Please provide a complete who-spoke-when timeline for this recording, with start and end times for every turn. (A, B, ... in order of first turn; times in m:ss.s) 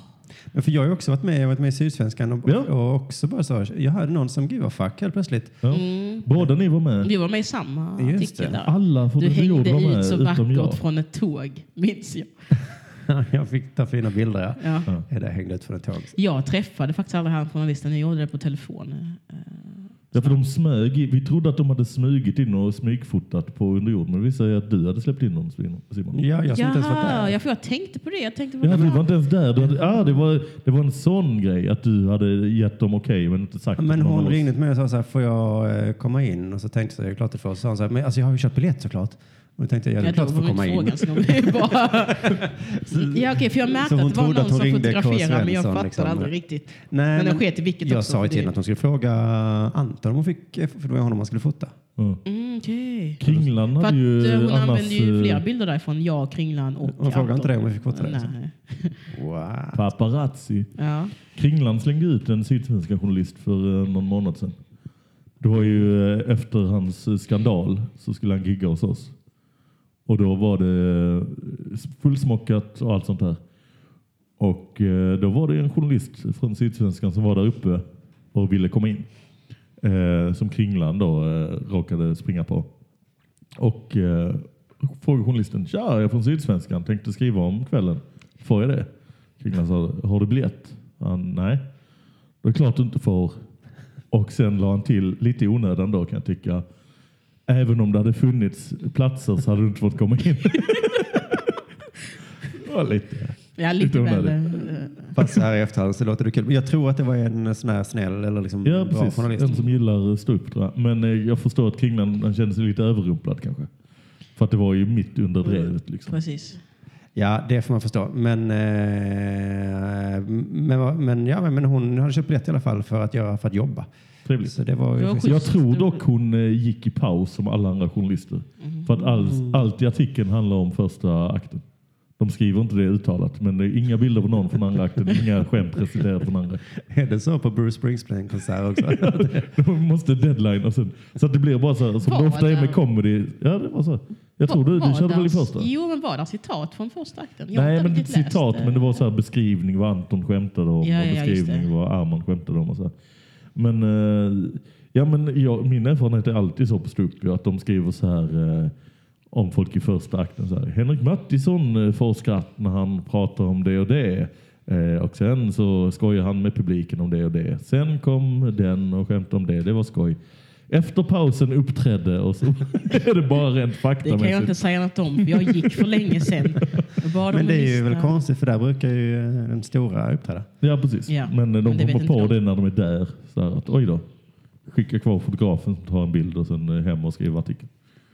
0:00.5-0:05.6 A
0:02.4-0:02.7 B
0:05.6-0:07.1 B
0:05.7-0:06.3 C
0:07.0-0:12.3 C
0:08.0-0:08.6 A
0:08.6-0:10.8 B
0:13.0-0:16.1 A
0:14.6-0:14.9 C
0:16.1-0:20.3 C
0:20.1-0:26.2 B
0:26.1-0:27.4 A
0:26.5-0:29.1 C
0:28.6-0:34.4 B
0:33.8-0:51.8 A
0:40.0-0:42.4 C
0:43.0-0:48.5 C
0:52.2-0:53.2 C
0:53.2-0:55.4 B
0:53.8-0:59.0 C
0:56.9-0:58.3 A
0:59.1-0:59.8 A
0:59.7-1:04.6 B
1:00.8-1:01.1 C
1:05.4-1:09.1 B
1:10.1-1:13.4 B
1:14.4-1:19.1 B
1:19.8-1:22.7 B
1:23.6-1:28.9 B
1:29.4-1:31.6 B
1:32.4-1:33.4 B
1:34.1-1:36.6 B
1:37.5-1:41.5 B
1:42.5-1:45.3 B
1:43.6-1:45.1 C
1:45.2-1:49.6 A
1:48.6-1:53.7 B
1:54.4-1:56.2 B
1:55.4-1:56.6 C
1:57.2-2:03.9 A
2:04.3-2:04.6 B
2:04.4-2:05.5 A
2:05.0-2:06.0 C
2:05.2-2:11.6 B
2:09.3-2:09.6 A
2:12.2-2:16.6 B
2:16.8-2:19.5 A
2:18.9-2:25.7 B
2:22.0-2:22.8 C
2:24.4-2:29.0 C
2:27.5-2:32.9 B
2:30.8-2:31.7 C
2:33.6-2:38.7 B
2:39.3-2:50.2 B
2:50.7-2:54.6 B
2:54.0-2:58.2 C
2:55.2-2:56.8 B
2:57.3-3:00.5 A
3:00.6-3:04.1 B
3:01.1-3:02.4 C
3:04.7-3:07.7 B